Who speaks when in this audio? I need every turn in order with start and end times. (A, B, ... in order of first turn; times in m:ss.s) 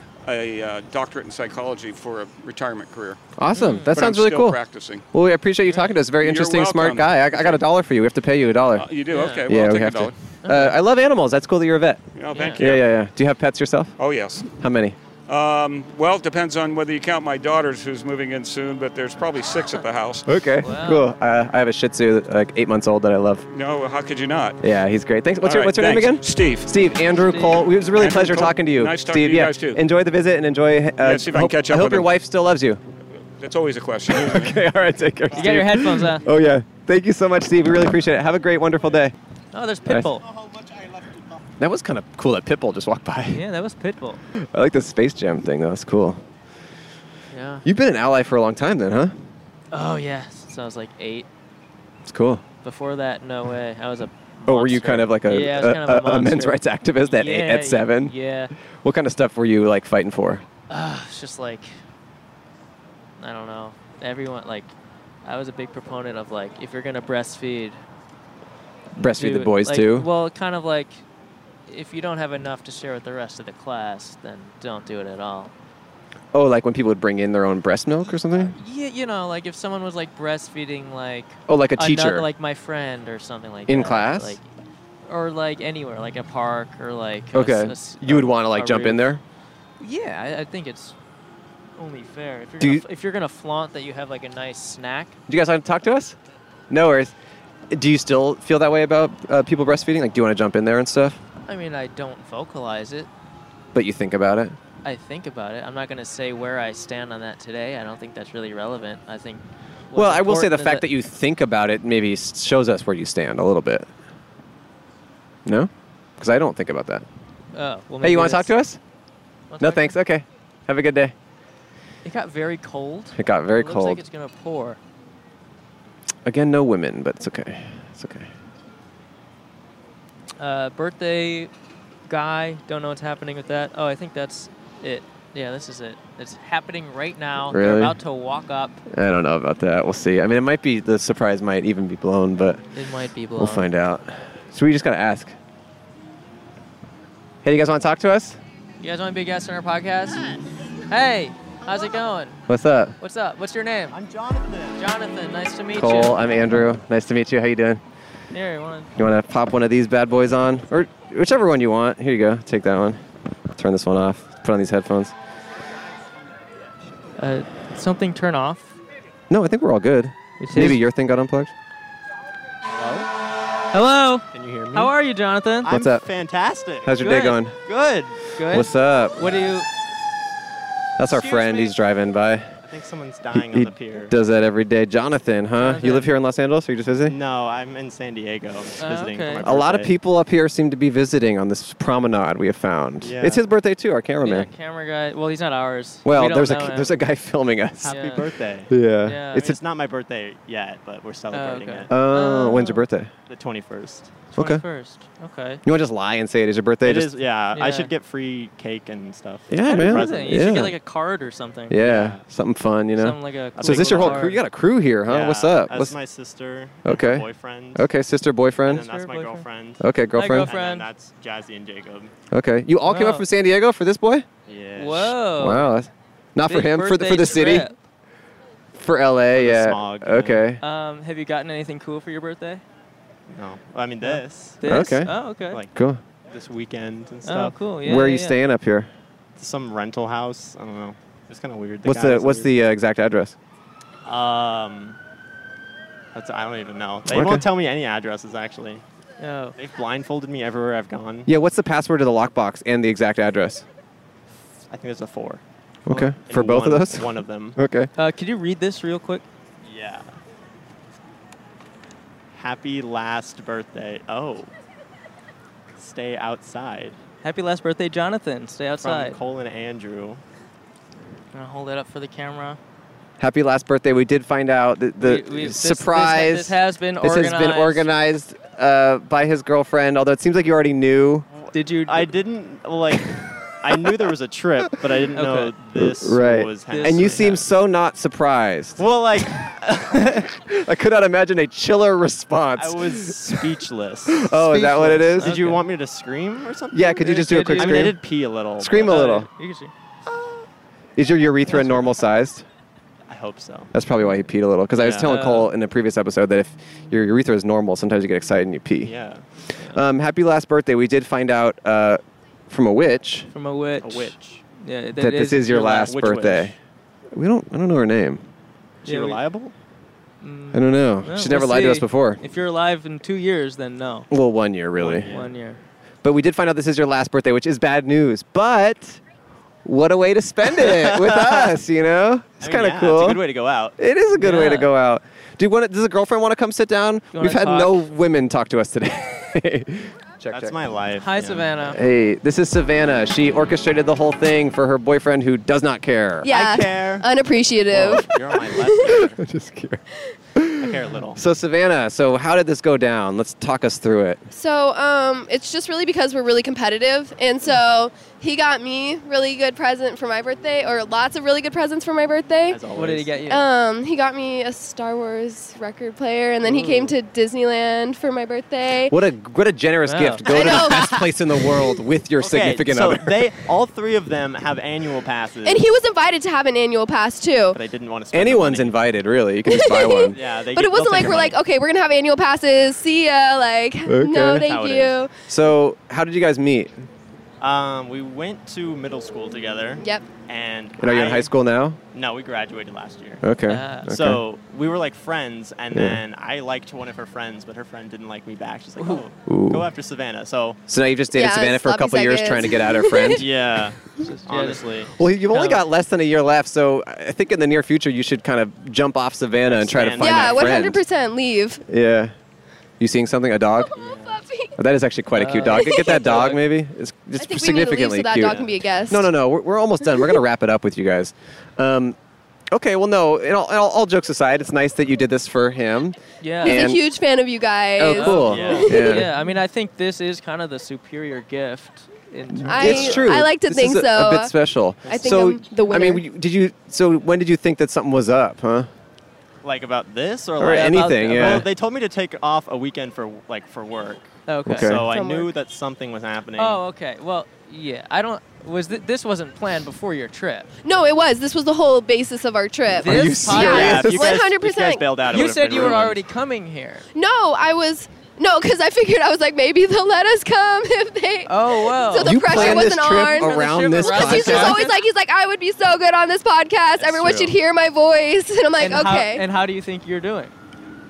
0:00.2-0:03.2 A
0:03.4-0:04.6 B
0:03.5-0:04.0 C
0:03.8-0:05.0 A
0:05.1-0:08.8 B
0:05.7-0:06.0 C
0:06.2-0:07.6 A
0:08.7-0:10.2 A
0:09.1-0:09.5 C
0:09.5-0:12.0 B
0:10.4-0:10.8 C
0:12.1-0:13.0 A
0:12.3-0:12.6 C
0:12.6-0:13.9 B
0:14.0-0:14.6 A
0:14.5-0:15.0 B
0:15.3-0:20.3 A
0:20.3-0:23.4 B
0:20.6-0:21.1 C
0:23.5-0:24.6 A
0:24.6-0:32.8 B
0:25.4-0:26.7 A
0:27.0-0:27.8 C
0:27.9-0:29.8 A
0:31.0-0:32.1 A
0:33.4-0:34.7 A
0:34.1-0:39.1 B
0:35.3-0:35.6 A
0:35.3-0:36.3 C
0:39.5-0:40.2 C
0:41.6-0:43.4 B
0:43.3-0:44.2 C
0:44.4-0:46.2 B
0:47.3-0:47.6 C
0:47.6-0:49.1 B
0:49.7-0:51.3 C
0:52.0-0:52.4 B
0:52.6-0:58.5 C
0:54.4-0:58.1 B
0:58.7-1:00.4 B
1:00.7-1:01.7 C
1:03.2-1:04.7 C
1:05.2-1:07.8 C
1:08.9-1:10.1 B
1:09.2-1:11.0 C
1:11.7-1:15.5 C
1:16.3-1:18.5 B
1:18.4-1:24.4 C
1:21.5-1:22.3 B
1:23.7-1:24.4 B
1:25.0-1:29.0 C
1:27.3-1:29.2 B
1:29.8-1:30.9 C
1:31.8-1:35.2 C
1:35.3-1:36.2 B
1:36.7-1:37.1 B
1:37.7-1:41.2 B
1:41.4-1:43.1 C
1:43.7-1:44.6 B
1:44.8-1:50.9 C
1:49.9-1:53.9 B
1:55.4-1:57.0 B
1:57.5-1:58.5 C
1:58.0-1:58.8 B
1:59.5-1:59.9 C
1:59.6-2:01.1 B
2:02.0-2:04.8 C
2:03.2-2:04.0 B
2:06.2-2:08.3 B
2:10.4-2:11.5 C
2:12.1-2:18.8 C
2:17.5-2:18.0 B
2:18.9-2:22.6 B
2:22.7-2:23.7 C
2:23.4-2:25.3 B
2:27.4-2:28.4 B
2:28.8-2:30.3 C
2:30.9-2:32.4 C
2:32.5-2:32.9 B
2:33.0-2:34.0 C
2:33.9-2:34.8 D
2:34.8-2:36.6 C
2:35.7-2:37.8 B
2:38.3-2:38.9 C
2:39.0-2:45.1 B
2:47.2-2:48.8 C
2:49.3-2:51.5 B
2:50.4-2:50.8 C
2:52.6-2:53.1 D
2:53.7-2:55.7 C
2:54.3-2:54.9 D
2:55.6-2:56.9 D
2:55.7-2:56.0 B
2:56.8-2:57.6 B
2:57.0-2:57.4 C
2:57.6-2:58.2 D
2:58.3-2:59.7 C
2:58.5-2:59.4 B
3:01.0-3:02.5 B
3:01.1-3:01.7 C
3:02.6-3:04.1 D
3:03.3-3:07.2 B
3:05.6-3:06.1 C
3:07.1-3:09.9 D
3:08.8-3:09.5 C
3:09.4-3:14.5 B
3:13.0-3:13.4 D
3:14.2-3:17.0 C
3:16.0-3:18.0 B
3:17.8-3:18.7 D
3:17.8-3:18.2 C
3:18.7-3:19.6 B
3:19.0-3:19.5 C
3:19.4-3:21.9 D
3:21.3-3:22.8 C
3:21.9-3:23.1 B
3:23.3-3:24.3 D
3:24.3-3:25.6 C
3:24.3-3:24.6 B
3:25.6-3:27.2 B
3:26.8-3:30.7 D
3:27.5-3:27.9 C
3:29.5-3:30.8 B
3:29.6-3:31.8 C
3:31.7-3:35.9 B
3:31.8-3:32.2 D
3:33.0-3:34.4 C
3:33.6-3:34.4 D
3:35.1-3:37.8 D
3:36.8-3:38.8 B
3:38.7-3:42.1 D
3:38.7-3:39.4 C
3:39.8-3:40.5 B
3:40.1-3:40.9 C
3:42.3-3:44.3 B
3:42.8-3:43.2 C
3:44.4-3:45.2 D
3:44.8-3:45.7 C
3:45.4-3:47.7 B
3:46.4-3:47.7 C
3:48.7-3:50.6 B
3:49.3-3:50.4 D
3:50.6-3:52.6 C
3:53.3-3:54.8 D
3:54.0-3:55.6 C
3:54.6-3:55.2 B
3:55.7-3:56.0 B
3:56.3-3:57.6 D
3:57.2-3:58.4 C
3:57.8-3:58.9 B
3:59.4-4:02.5 D
4:01.8-4:03.4 B
4:04.0-4:05.0 D
4:06.1-4:08.8 D
4:07.1-4:07.4 B
4:09.2-4:09.5 C
4:09.6-4:11.3 D
4:11.3-4:13.6 B
4:14.7-4:15.4 D
4:15.8-4:17.9 B
4:15.9-4:17.6 D
4:18.0-4:19.2 C
4:19.6-4:20.1 D
4:22.3-4:24.5 D
4:25.7-4:27.0 D
4:27.2-4:29.2 C
4:28.8-4:30.2 D
4:31.3-4:32.6 C
4:33.2-4:41.3 B
4:35.0-4:37.9 C
4:41.3-4:47.4 D
4:41.5-4:42.1 C
4:45.1-4:45.5 C
4:45.8-4:48.8 B
4:46.7-4:47.4 C
4:48.8-4:50.3 D
4:50.0-4:53.5 B
4:52.6-4:59.1 D
4:54.1-4:55.4 B
4:55.2-4:55.7 C
4:56.7-4:58.0 B
4:57.0-4:58.0 C
4:58.6-4:59.3 B
4:58.7-4:59.7 C
5:00.1-5:00.4 D
5:01.0-5:02.4 B
5:03.1-5:03.7 D
5:03.7-5:08.9 B
5:04.8-5:05.1 D
5:04.8-5:05.5 C
5:08.8-5:09.2 D
5:09.7-5:13.3 B
5:13.3-5:16.1 C
5:13.8-5:14.4 D
5:15.0-5:16.6 B
5:15.8-5:16.6 D
5:17.1-5:18.2 B
5:18.8-5:19.5 D
5:18.8-5:19.2 C
5:20.2-5:24.1 C
5:20.5-5:22.2 B
5:24.1-5:25.1 B
5:24.8-5:25.3 D
5:25.1-5:25.6 C
5:26.0-5:29.0 B
5:29.6-5:33.2 B
5:30.5-5:31.5 D
5:32.4-5:33.8 D
5:33.8-5:40.6 B
5:34.2-5:34.7 C
5:37.1-5:37.8 C
5:40.3-5:41.5 D
5:41.0-5:41.8 C
5:41.7-5:46.3 B
5:46.2-5:48.1 E
5:46.3-5:47.0 D
5:47.7-5:49.2 D
5:48.8-5:49.8 B
5:50.3-5:54.2 B
5:50.6-5:51.2 D
5:54.3-6:02.6 E
6:02.5-6:03.2 D
6:02.7-6:03.4 C
6:03.3-6:09.0 E
6:06.4-6:06.9 C
6:08.9-6:13.2 B
6:09.8-6:10.2 C
6:10.3-6:11.0 E
6:10.3-6:11.0 D
6:12.2-6:15.6 D
6:15.4-6:17.6 E
6:17.5-6:18.8 D
6:18.1-6:20.2 B
6:19.5-6:25.1 E
6:20.1-6:21.4 D
6:23.9-6:24.5 B
6:24.4-6:25.0 D
6:25.3-6:26.8 B
6:27.4-6:31.3 D
6:29.8-6:30.1 E
6:30.8-6:31.8 B
6:31.9-6:33.2 D
6:33.2-6:34.2 B
6:33.5-6:33.9 C
6:33.9-6:40.6 D
6:35.7-6:36.0 B
6:38.8-6:39.0 C
6:39.2-6:39.7 B
6:40.7-6:43.3 B
6:41.1-6:43.2 E
6:43.1-6:44.9 D
6:44.0-6:45.6 C
6:45.0-6:50.8 B
6:49.4-6:50.6 D
6:50.0-6:51.6 E
6:51.7-6:52.1 B
6:52.8-6:53.8 B
6:53.6-6:54.6 E
6:53.8-6:54.2 D
6:54.6-7:02.0 B
6:55.1-6:56.4 C
6:55.5-6:56.0 E
6:57.2-6:59.1 E
6:58.2-6:58.5 D
7:02.5-7:06.8 B
7:06.2-7:06.6 C
7:06.4-7:09.0 E
7:07.8-7:09.1 B
7:07.9-7:13.0 C
7:08.2-7:08.6 D
7:12.3-7:18.7 B
7:12.5-7:14.3 E
7:14.9-7:16.0 E
7:19.4-7:26.6 D
7:20.4-7:21.5 B
7:20.4-7:21.5 C
7:24.3-7:24.8 C
7:24.4-7:24.8 B
7:24.8-7:25.3 E
7:26.4-7:30.5 C
7:30.6-7:35.0 E
7:32.8-7:34.1 C
7:32.8-7:34.2 B
7:33.3-7:36.0 D
7:35.1-7:36.8 C
7:36.9-7:49.2 E
7:41.3-7:44.8 C
7:42.0-7:44.6 B
7:46.8-7:47.4 D
7:48.6-7:50.3 C